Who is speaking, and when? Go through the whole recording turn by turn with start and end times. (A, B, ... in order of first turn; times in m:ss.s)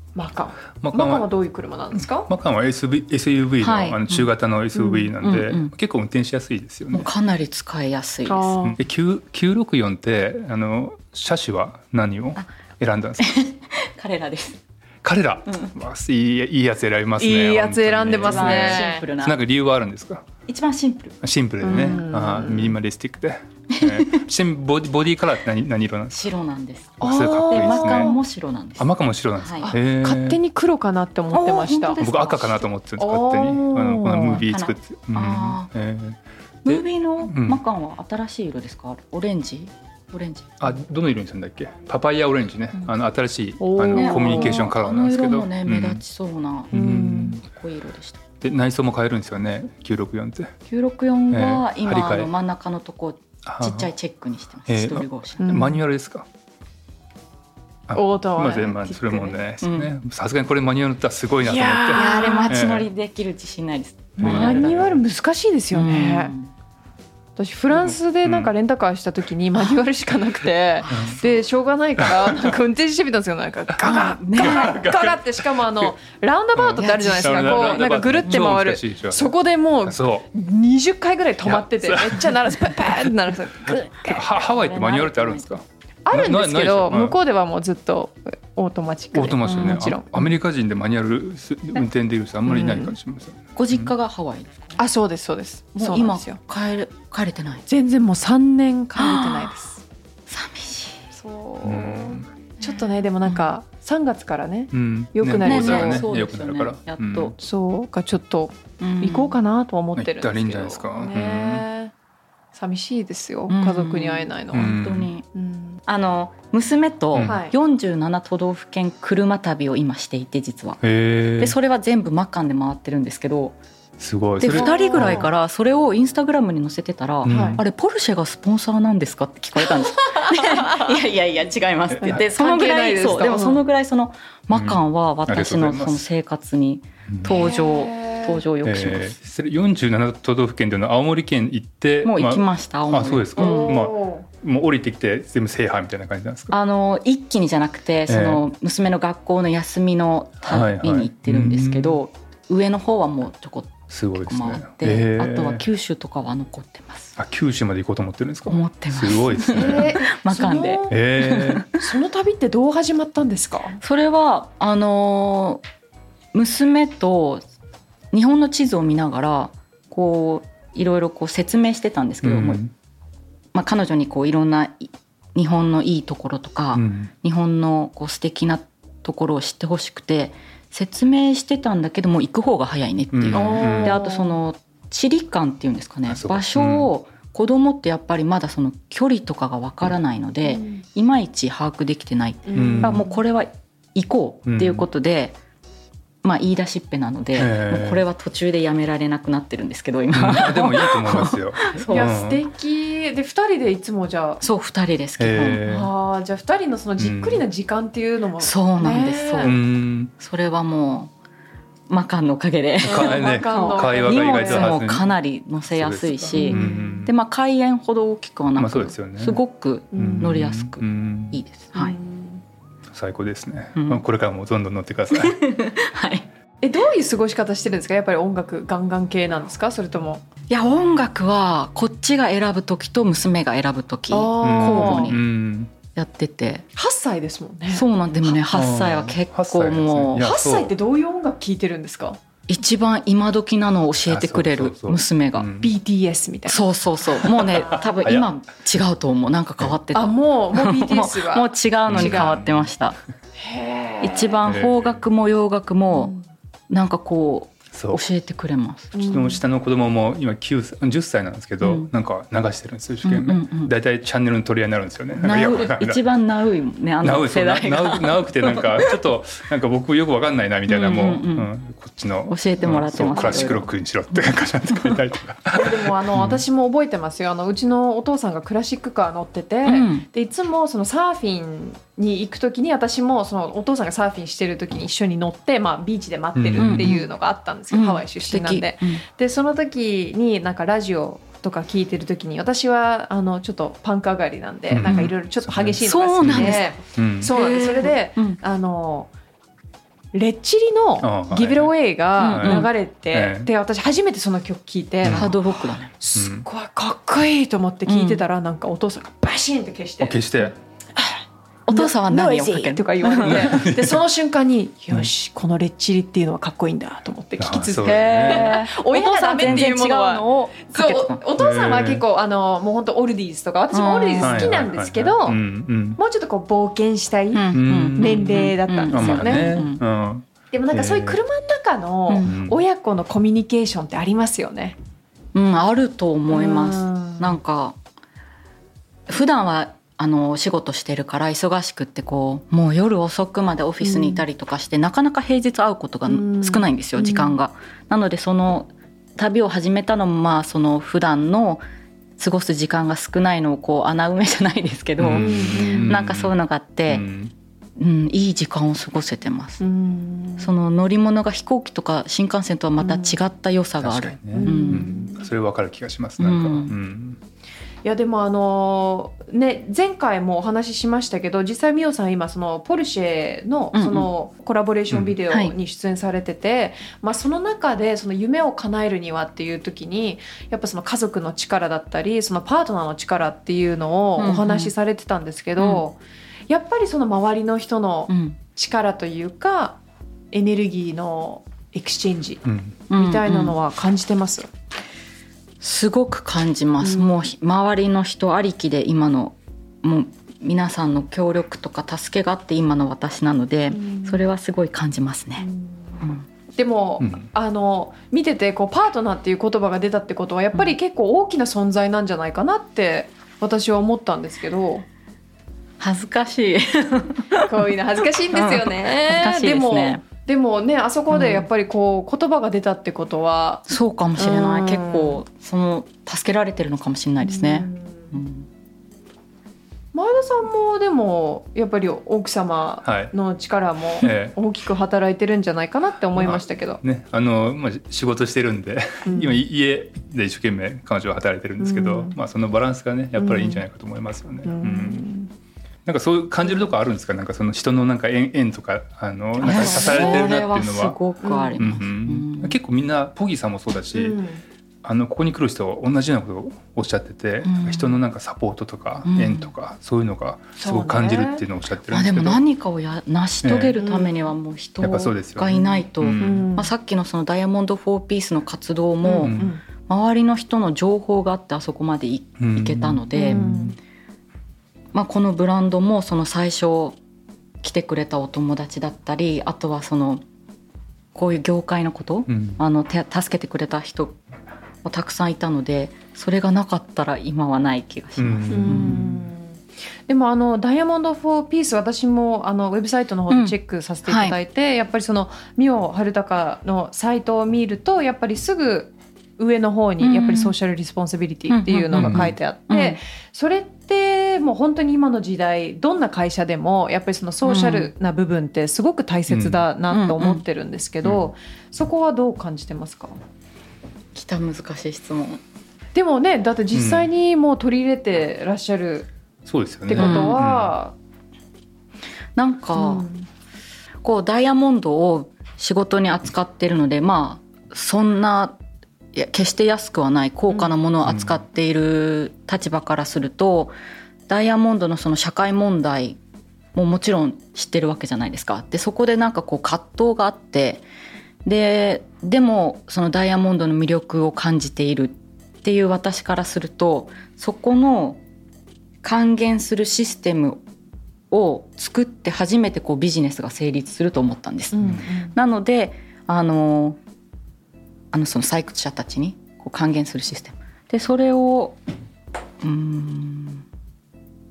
0:00.1-0:02.3 A
0:00.8-0:01.3 B
0:02.0-0:07.1 B
0:03.6-0:04.3 C
0:04.8-0:05.0 A
0:05.2-0:05.7 C
0:06.9-0:08.7 C
0:08.2-0:08.8 A
0:08.7-0:13.3 B
0:13.2-0:14.6 C
0:15.0-0:20.2 B
0:15.5-0:15.7 C
0:17.2-0:19.0 A
0:18.2-0:19.4 C
0:20.4-0:21.2 C
0:21.2-0:26.2 B
0:21.6-0:22.8 A
0:23.7-0:24.2 C
0:26.1-0:29.7 C
0:27.0-0:28.2 B
0:27.0-0:28.2 A
0:28.8-0:30.4 B
0:29.6-0:32.0 A
0:31.3-0:32.7 C
0:32.0-0:37.6 B
0:33.0-0:34.4 A
0:34.4-0:35.7 C
0:36.6-0:40.6 C
0:40.6-0:46.0 B
0:43.6-0:44.6 A
0:43.9-0:48.2 C
0:46.7-0:47.4 B
0:46.7-0:47.4 A
0:48.4-0:50.5 B
0:50.7-0:55.5 C
0:51.3-0:52.3 B
0:53.4-0:53.9 B
0:54.7-0:56.3 B
0:55.4-0:55.8 A
0:57.9-1:02.9 B
0:57.9-0:59.4 A
0:59.6-0:59.9 C
1:01.4-1:02.6 A
1:01.9-1:04.8 C
1:04.2-1:05.0 B
1:04.2-1:06.3 A
1:05.7-1:06.5 C
1:07.4-1:24.2 A
1:07.7-1:08.5 B
1:10.8-1:11.3 C
1:10.9-1:11.2 B
1:12.0-1:12.5 B
1:13.8-1:15.9 B
1:13.8-1:14.8 C
1:16.6-1:20.3 B
1:16.8-1:18.4 C
1:21.4-1:23.1 B
1:23.7-1:27.2 B
1:24.2-1:25.5 C
1:26.0-1:30.3 A
1:29.1-1:33.9 B
1:29.5-1:29.8 C
1:32.5-1:32.9 A
1:33.6-1:34.8 C
1:34.8-1:36.4 A
1:35.7-1:37.6 C
1:37.7-1:39.8 A
1:39.0-1:39.5 C
1:40.3-1:41.1 C
1:41.1-1:46.0 A
1:41.6-1:42.3 B
1:44.7-1:47.3 B
1:45.4-1:47.3 C
1:47.4-1:51.9 A
1:48.8-1:49.4 C
1:49.9-1:51.6 B
1:52.5-1:54.8 A
1:53.5-1:55.2 C
1:54.5-1:55.1 B
1:55.3-1:55.8 A
1:55.9-2:00.8 C
1:57.2-1:57.5 A
2:00.8-2:01.6 B
2:01.4-2:03.6 C
2:04.0-2:05.3 B
2:04.4-2:19.2 C
2:04.5-2:05.3 A
2:07.2-2:07.6 B
2:07.2-2:07.6 A
2:10.0-2:10.8 A
2:11.9-2:12.2 B
2:12.0-2:13.6 A
2:14.5-2:16.1 B
2:17.1-2:17.4 B
2:17.2-2:18.4 A
2:18.6-2:26.5 B
2:22.0-2:23.8 C
2:23.4-2:24.2 A
2:26.5-2:37.2 C
2:28.1-2:28.4 B
2:30.4-2:32.0 B
2:33.9-2:35.6 B
2:37.2-2:40.0 B
2:38.5-2:41.8 C
2:39.5-2:41.0 A
2:40.9-2:41.6 B
2:41.7-2:43.8 A
2:43.8-2:45.6 C
2:46.3-2:47.4 C
2:48.1-2:52.6 C
2:52.2-2:52.7 B
2:53.5-3:15.4 C
2:56.7-2:57.1 B
3:03.1-3:04.0 B
3:03.3-3:04.4 A
3:06.1-3:06.9 B
3:10.4-3:10.8 A
3:12.5-3:13.2 A
3:12.5-3:13.0 B
3:14.4-3:14.8 B
3:16.2-3:22.1 C
3:17.3-3:18.0 B
3:20.1-3:22.4 B
3:21.8-3:24.4 A
3:24.4-3:25.6 C
3:25.2-3:25.9 B
3:25.6-3:29.5 A
3:27.0-3:27.4 B
3:28.4-3:29.6 C
3:29.4-3:30.1 B
3:30.1-3:31.1 C
3:31.9-3:42.0 C
3:32.8-3:35.1 B
3:32.8-3:34.8 A
3:35.7-3:37.1 B
3:36.3-3:37.1 A
3:38.6-3:39.4 B
3:39.9-3:40.3 A
3:39.9-3:41.4 B
3:41.7-3:42.4 A
3:42.9-3:45.4 B
3:43.7-3:44.0 C
3:45.1-3:46.3 C
3:46.6-3:50.2 A
3:50.5-3:55.2 C
3:54.1-3:55.2 A
3:54.4-3:55.7 B
3:55.9-3:56.6 C
3:56.8-3:57.8 A
3:57.7-4:00.3 C
3:58.2-4:00.7 B
4:00.2-4:02.2 A
4:02.5-4:05.5 C
4:04.1-4:05.7 B
4:05.6-4:06.6 A
4:06.5-4:13.0 C
4:07.2-4:08.3 B
4:09.9-4:12.4 A
4:11.9-4:12.7 B
4:13.4-4:14.4 A
4:14.0-4:16.1 C
4:14.4-4:15.0 B
4:15.9-4:16.2 A
4:16.7-4:18.9 C
4:17.7-4:18.0 B
4:18.9-4:19.4 A
4:19.0-4:26.0 B
4:21.6-4:21.9 C
4:23.0-4:23.7 C
4:25.2-4:28.9 C
4:27.0-4:36.4 B
4:30.7-4:31.5 C
4:32.3-4:33.7 C
4:33.1-4:33.5 A
4:34.3-4:35.0 C
4:35.5-4:59.1 A
4:39.6-4:40.0 C
4:46.4-4:46.9 B
4:46.6-4:47.1 C
4:47.7-4:49.0 C
4:54.7-4:57.3 B
4:55.8-4:56.7 C
4:57.2-4:58.4 C
5:00.1-5:25.4 A
5:01.0-5:03.5 B
5:02.2-5:02.7 C
5:05.0-5:05.3 B
5:05.0-5:05.9 C
5:06.1-5:06.4 B
5:07.8-5:08.2 C
5:10.0-5:10.5 B
5:11.7-5:13.7 C
5:13.2-5:14.0 B
5:17.4-5:18.6 B
5:17.8-5:21.2 C
5:21.4-5:22.0 B
5:23.7-5:24.5 C
5:24.2-5:26.0 B
5:26.0-5:29.6 A
5:27.3-5:29.8 C
5:27.5-5:28.2 B
5:28.9-5:31.2 B
5:30.5-5:34.8 A
5:32.2-5:32.6 B
5:35.3-5:37.8 C
5:36.3-5:37.4 A
5:39.1-5:51.6 C
5:43.8-5:44.2 A
5:46.1-5:47.4 A
5:52.2-5:57.1 C
5:55.0-5:56.3 B
5:55.1-5:55.9 A
5:56.9-5:57.3 B
5:57.8-5:59.6 C
5:59.6-6:00.5 A
6:00.4-6:04.9 C
6:02.8-6:03.2 A
6:03.8-6:07.2 B
6:04.3-6:05.3 A
6:06.2-6:06.7 C
6:07.8-6:26.0 A
6:13.7-6:14.1 C
6:15.3-6:15.5 C
6:24.2-6:24.7 C
6:25.6-6:25.8 C
6:26.5-6:29.8 A
6:28.1-6:28.4 C
6:30.3-6:34.5 A
6:32.4-6:32.8 B
6:32.9-6:33.6 C
6:35.6-6:45.5 C
6:36.8-6:37.1 A
6:43.7-6:44.2 A
6:45.4-6:46.0 A
6:46.0-6:46.2 C
6:46.5-6:54.8 A
6:47.0-6:47.2 B
6:55.8-6:57.7 C
6:57.4-7:05.2 A
6:58.3-7:00.0 C
7:01.1-7:01.4 C
7:03.7-7:08.5 C
7:07.2-7:08.1 A
7:09.9-7:16.8 A
7:12.8-7:13.1 B
7:14.0-7:14.4 B
7:16.1-7:25.0 B
7:19.0-7:19.4 A
7:21.6-7:22.2 A
7:23.2-7:23.6 A
7:24.4-7:25.3 A
7:25.8-7:31.0 B
7:29.4-7:32.6 C
7:29.6-7:30.3 A
7:31.2-7:31.6 A
7:31.6-7:34.2 B
7:33.9-7:34.4 A
7:34.8-7:42.4 B
7:37.4-7:38.0 C
7:39.0-7:39.5 C
7:40.6-7:41.4 A
7:41.9-7:53.5 C
7:43.4-7:43.8 B
7:43.8-7:44.2 A
7:44.8-7:46.4 B
7:46.2-7:46.7 A
7:49.0-7:49.6 A
7:49.2-7:49.5 B
7:52.4-7:53.8 B
7:53.2-7:53.8 A
7:54.9-7:57.0 C
7:57.6-8:00.2 C
8:01.1-8:04.2 C
8:02.3-8:02.6 B
8:04.8-8:09.0 C
8:08.2-8:09.2 B
8:08.5-8:33.1 A
8:13.3-8:14.4 C
8:20.0-8:20.5 C
8:21.5-8:23.0 C
8:21.9-8:22.3 B
8:27.4-8:27.9 C
8:29.3-8:29.6 B
8:29.9-8:30.4 C
8:31.0-8:31.3 B
8:34.1-8:35.4 C
8:35.9-8:39.1 A
8:36.7-8:37.1 B
8:39.4-8:40.7 B
8:39.9-8:40.9 A
8:40.0-8:40.4 C
8:42.4-8:43.1 C
8:42.8-8:43.3 A
8:44.0-8:48.6 C
8:49.1-8:53.7 C
8:51.0-8:51.4 B
8:54.3-8:56.2 C
8:56.7-9:00.8 C
9:01.4-9:08.2 C
9:09.0-9:10.6 C
9:11.3-9:17.0 C
9:14.7-9:15.4 A
9:18.1-9:21.8 C
9:22.6-9:23.6 C